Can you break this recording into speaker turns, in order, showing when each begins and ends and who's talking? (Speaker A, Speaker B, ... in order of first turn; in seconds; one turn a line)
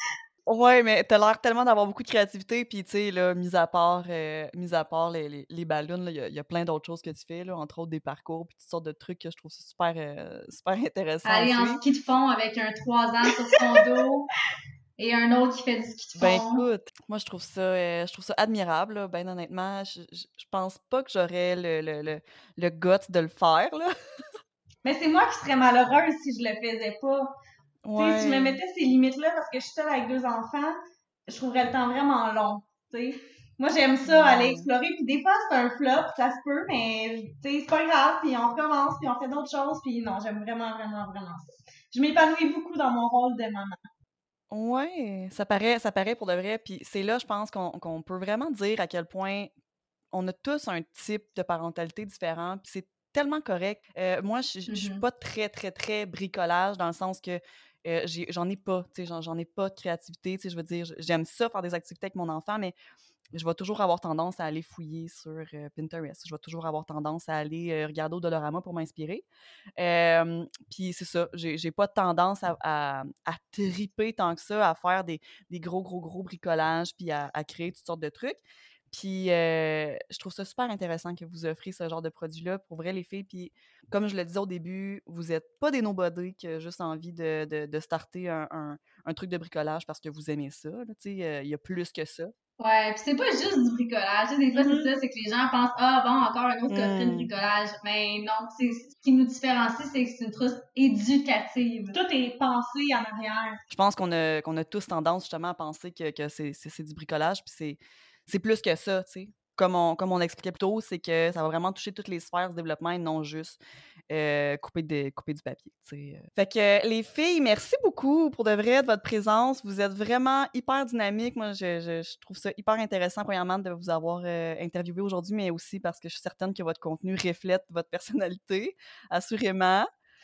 Speaker A: 0.5-11.8
Speaker B: 11.2-14.3
Speaker B: 15.0-16.6
Speaker A: 16.2-24.2
Speaker C: 24.8-27.3
Speaker A: 27.8-28.6
Speaker C: 28.0-30.8
Speaker C: 31.3-43.8
Speaker A: 34.0-34.7
Speaker A: 44.5-49.5
Speaker A: 50.1-62.8
Speaker B: 54.7-55.0
Speaker A: 63.3-69.2
Speaker A: 69.8-92.3
Speaker B: 92.6-102.0
Speaker C: 94.5-94.9
Speaker A: 96.7-97.3
Speaker C: 101.9-103.6
Speaker A: 103.7-113.6
Speaker A: 114.1-129.9